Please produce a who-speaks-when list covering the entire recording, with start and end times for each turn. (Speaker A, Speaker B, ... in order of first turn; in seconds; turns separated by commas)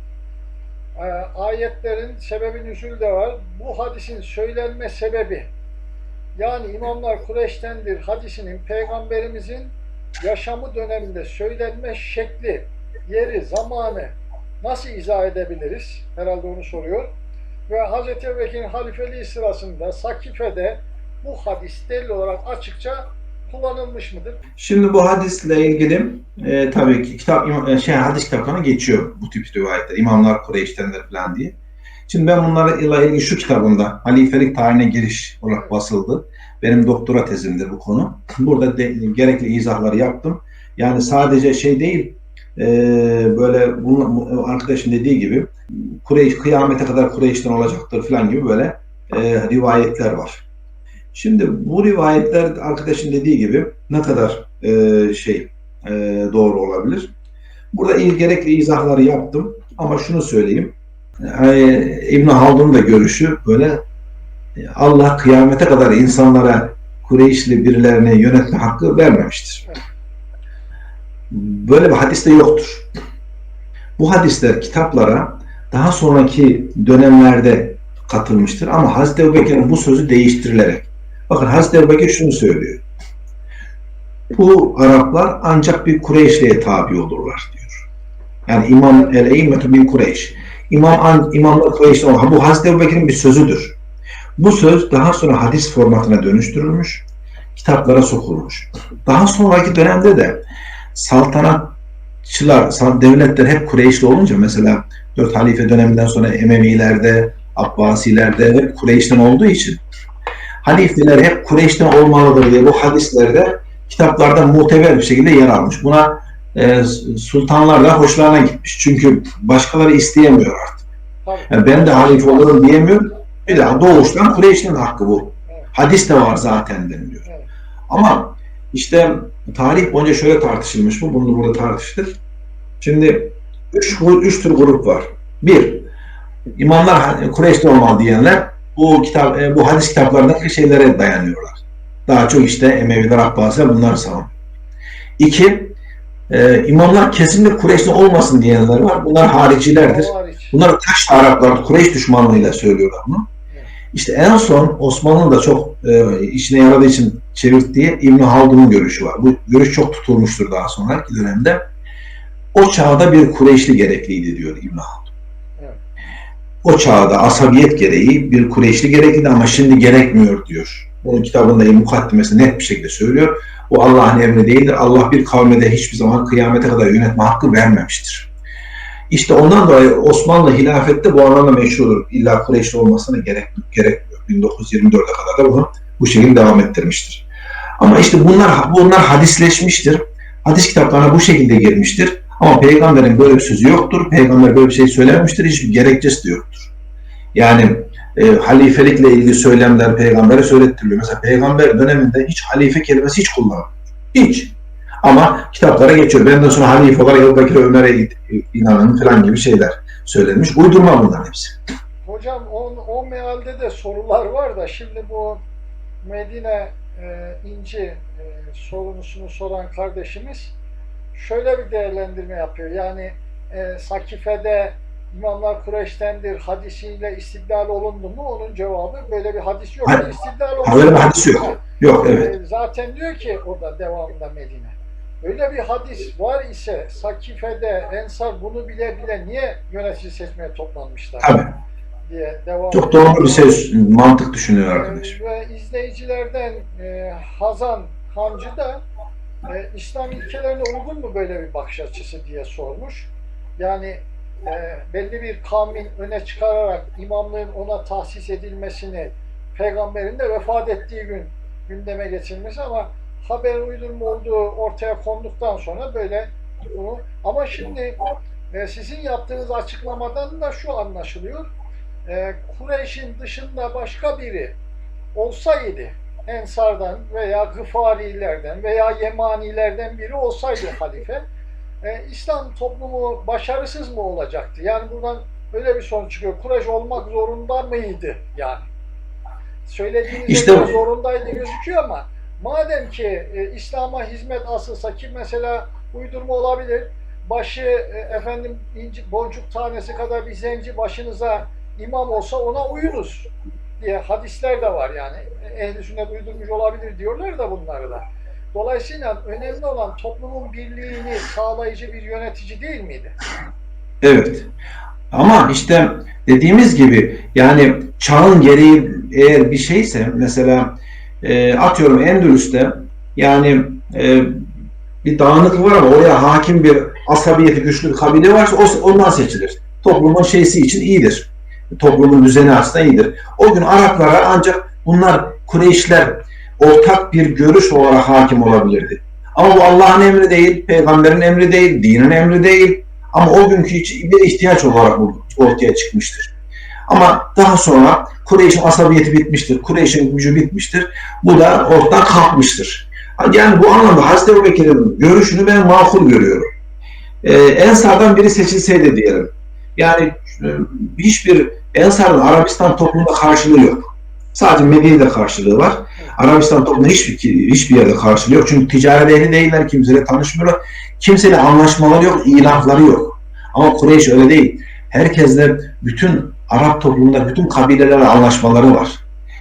Speaker A: 1.0-5.5, Speaker A: 6.4-17.1, Speaker A: 17.7-24.4, Speaker B: 24.6-31.6, Speaker B: 32.1-50.5, Speaker A: 35.5-35.8, Speaker B: 51.1-57.1, Speaker B: 57.7-63.8, Speaker B: 64.6-69.7, Speaker B: 71.3-72.9, Speaker B: 74.0-82.8, Speaker B: 84.3-87.9, Speaker B: 88.5-93.8, Speaker B: 94.4-100.4, Speaker B: 100.9-109.8, Speaker B: 110.6-120.9, Speaker A: 121.2-122.6, Speaker B: 121.5-127.3, Speaker A: 123.5-123.9, Speaker A: 125.5-125.7, Speaker A: 127.2-127.5, Speaker B: 127.9-132.2, Speaker B: 132.8-135.9, Speaker B: 136.6-144.3, Speaker B: 145.2-145.8, Speaker B: 146.3-153.3, Speaker A: 149.8-150.6, Speaker B: 153.9-161.6, Speaker B: 162.5-165.1, Speaker B: 166.6-178.3, Speaker B: 179.1-187.3, Speaker B: 187.8-196.7, Speaker B: 197.3-211.6, Speaker A: 212.1-215.4, Speaker A: 216.0-220.6, Speaker A: 221.1-241.3, Speaker B: 230.6-232.3, Speaker B: 241.2-241.6, Speaker A: 242.1-243.7, Speaker B: 242.7-245.2, Speaker A: 244.7-248.8, Speaker A: 249.5-268.0, Speaker A: 268.5-271.5, Speaker A: 272.1-274.6, Speaker A: 275.1-281.2, Speaker A: 281.8-288.7, Speaker A: 289.6-313.2, Speaker B: 290.3-290.8, Speaker B: 314.0-314.5, Speaker B: 315.1-324.5, Speaker B: 325.0-346.3, Speaker B: 346.9-356.5, Speaker B: 357.2-379.0